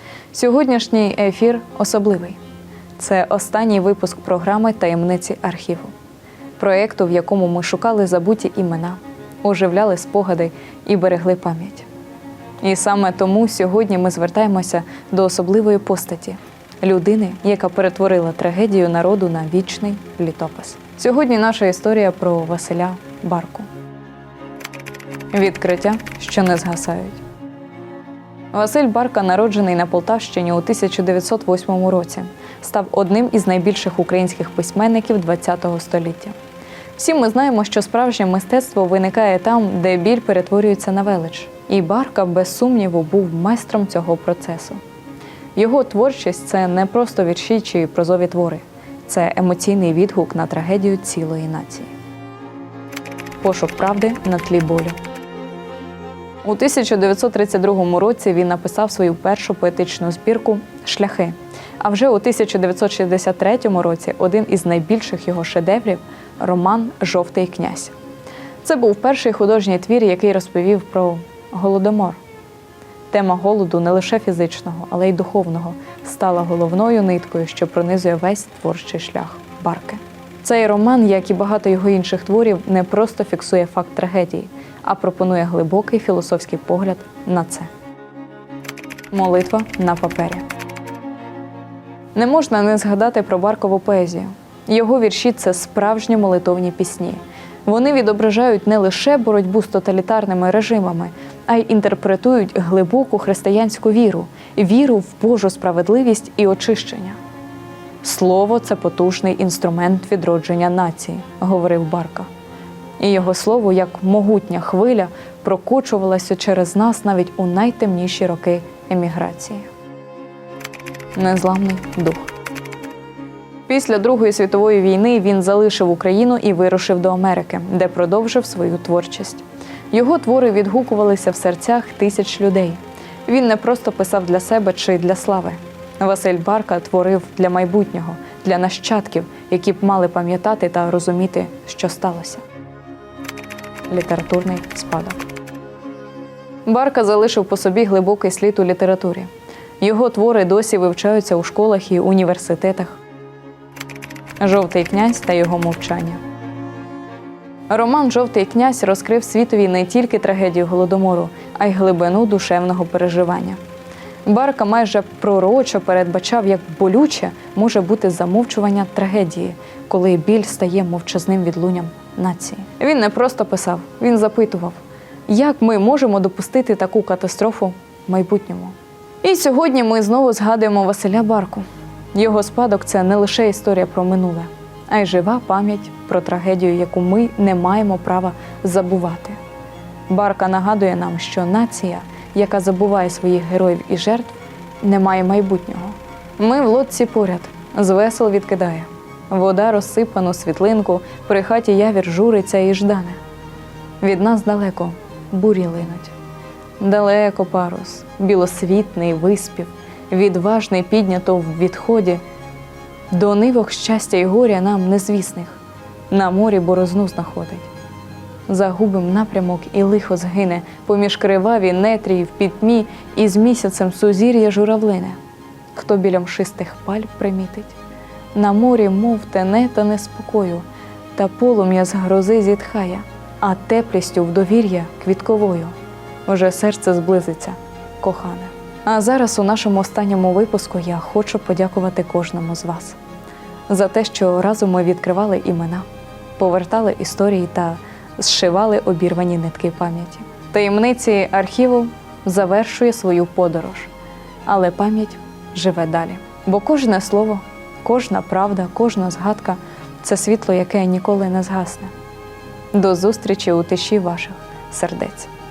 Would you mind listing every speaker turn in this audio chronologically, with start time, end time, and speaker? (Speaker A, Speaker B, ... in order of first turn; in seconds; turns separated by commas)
Speaker A: 0.3-2.4, Speaker A: 3.0-5.9, Speaker A: 6.6-11.9, Speaker A: 12.6-23.7, Speaker A: 25.3-27.2, Speaker A: 28.5-36.4, Speaker A: 37.0-44.8, Speaker A: 45.5-51.9, Speaker A: 53.4-55.0, Speaker A: 56.4-67.9, Speaker A: 68.6-72.2, Speaker A: 73.1-87.7, Speaker A: 89.1-90.5, Speaker A: 92.1-107.2, Speaker A: 108.0-112.3, Speaker A: 113.0-119.7, Speaker A: 121.2-122.3, Speaker A: 123.7-142.4, Speaker A: 143.9-145.2, Speaker A: 146.7-149.3, Speaker A: 149.8-153.0, Speaker A: 154.4-156.2, Speaker A: 157.7-163.6, Speaker A: 164.2-189.4, Speaker A: 190.1-203.2, Speaker A: 204.0-206.1, Speaker A: 206.8-212.2, Speaker A: 213.1-215.6, Speaker A: 216.1-217.7, Speaker A: 218.5-225.2, Speaker A: 225.7-227.8, Speaker A: 228.3-235.7, Speaker A: 236.2-243.0, Speaker A: 243.7-245.8, Speaker A: 246.4-253.9, Speaker A: 254.4-261.9, Speaker A: 262.7-265.3